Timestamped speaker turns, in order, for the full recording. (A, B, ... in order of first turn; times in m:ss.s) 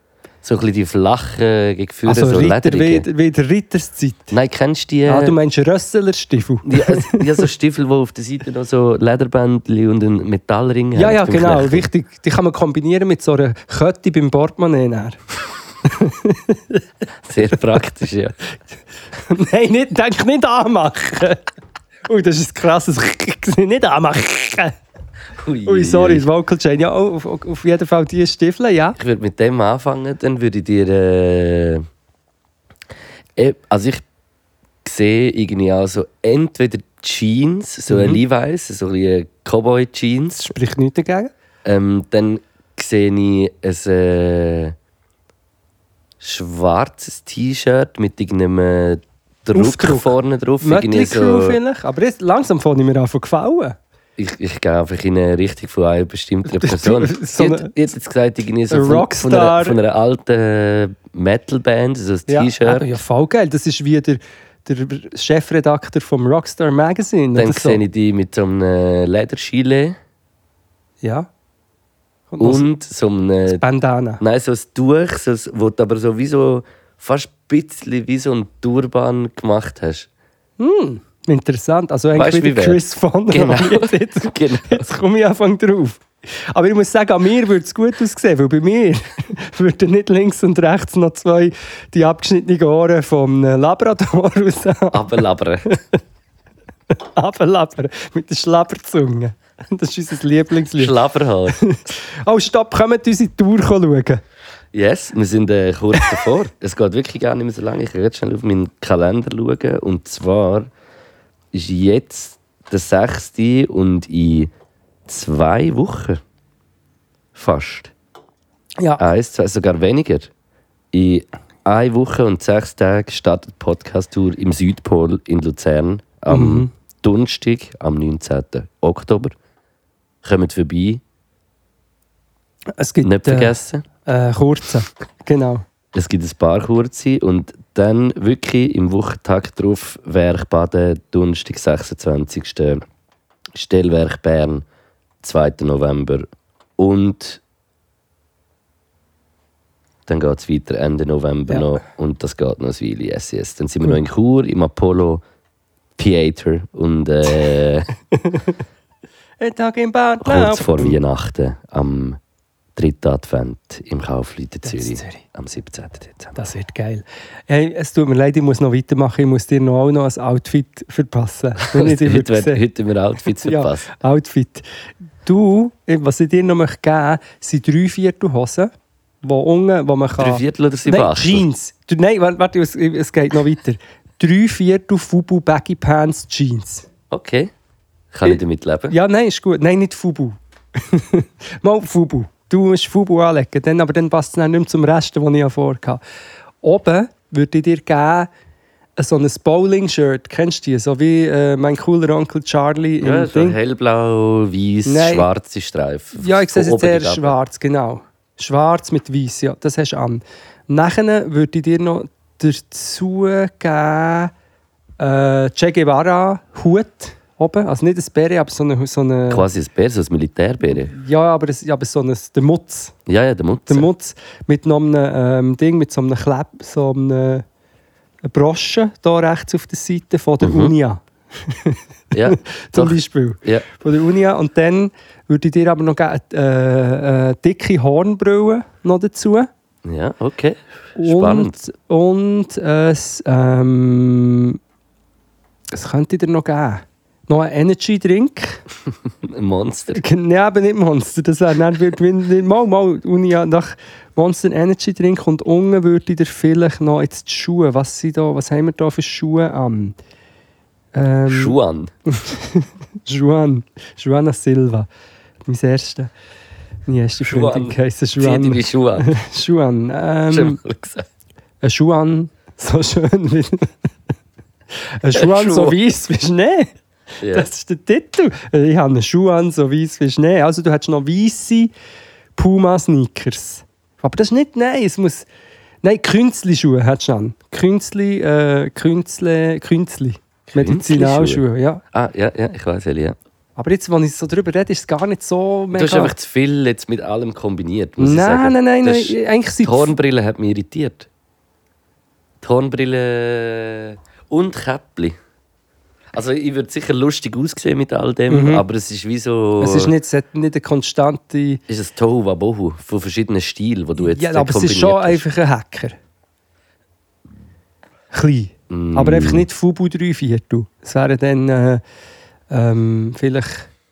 0:00.4-0:03.1 A
0:02.0-0:04.3 B
0:04.3-0:05.4 A
0:05.1-0:07.4 B
0:06.6-0:11.9 A
0:10.9-0:15.2 B
0:15.8-0:16.8 B
0:17.3-0:18.4 A
0:19.3-0:21.4 B
0:22.1-0:24.8 B
0:25.4-0:26.2 A
0:25.6-0:29.0 B
0:29.0-0:31.9 A
0:33.4-0:34.0 A
0:34.8-0:40.5 A
0:37.9-0:38.2 B
0:40.4-0:41.3 B
0:41.6-0:44.8 A
0:46.2-0:51.6 A
0:49.5-0:53.8 B
0:54.2-1:02.9 A
0:56.4-0:57.7 B
0:58.7-0:59.8 B
1:02.3-1:07.8 B
1:07.4-1:10.0 A
1:11.0-1:11.3 B
1:12.3-1:12.6 B
1:12.4-1:13.6 A
1:13.5-1:14.2 B
1:14.2-1:20.1 A
1:20.6-1:36.0 B
1:22.1-1:24.9 A
1:34.9-1:35.7 A
1:36.9-1:44.2 B
1:40.8-1:41.6 A
1:44.7-1:50.7 A
1:51.5-1:54.5 A
1:55.1-1:56.2 A
1:57.4-1:57.9 A
1:58.8-1:59.0 B
1:59.0-2:00.3 A
2:00.9-2:09.3 A
2:06.3-2:06.7 B
2:10.2-2:11.0 A
2:12.8-2:15.6 B
2:13.0-2:13.8 A
2:15.9-2:22.8 A
2:23.5-2:24.6 A
2:25.2-2:26.2 A
2:26.8-2:27.4 A
2:30.1-2:35.2 A
2:31.5-2:31.8 B
2:36.0-2:37.9 A
2:39.4-2:41.0 B
2:40.2-2:42.2 A
2:42.8-2:46.4 A
2:44.6-2:45.2 B
2:46.4-2:52.6 B
2:51.7-2:53.9 A
2:53.3-2:54.6 B
2:55.2-2:58.7 B
2:59.2-3:06.9 B
3:00.2-3:01.4 A
3:07.1-3:07.5 A
3:08.1-3:08.9 A
3:08.2-3:16.0 B
3:16.6-3:18.3 B
3:19.0-3:23.6 B
3:23.0-3:27.3 A
3:24.8-3:25.3 B
3:26.2-3:34.3 B
3:35.0-3:39.5 B
3:39.3-3:40.9 A
3:40.7-3:42.9 B
3:43.1-3:43.9 A
3:43.7-3:47.4 B
3:48.3-3:59.5 B
3:50.4-3:50.7 A
3:52.1-3:53.6 A
3:59.8-4:01.6 A
4:01.0-4:04.6 B
4:05.7-4:08.6 B
4:09.0-4:10.0 A
4:09.9-4:20.0 B
4:20.9-4:21.6 B
4:21.3-4:21.9 A
4:22.1-4:24.9 B
4:25.5-4:26.1 B
4:26.9-4:30.6 B
4:27.2-4:29.2 A
4:30.3-4:31.1 A
4:31.6-4:33.7 B
4:34.7-4:41.7 B
4:35.1-4:35.8 A
4:37.2-4:37.5 A
4:42.4-4:45.3 B
4:45.8-4:51.8 B
4:50.5-4:53.2 A
4:53.6-4:56.1 B
4:55.7-5:01.1 A
4:58.0-4:59.9 B
5:02.4-5:05.2 A
5:06.1-5:09.9 A
5:08.3-5:08.6 B
5:09.6-5:11.6 B
5:11.7-5:15.2 A
5:14.0-5:16.0 B
5:18.1-5:21.8 B
5:18.7-5:19.5 A
5:22.5-5:23.7 B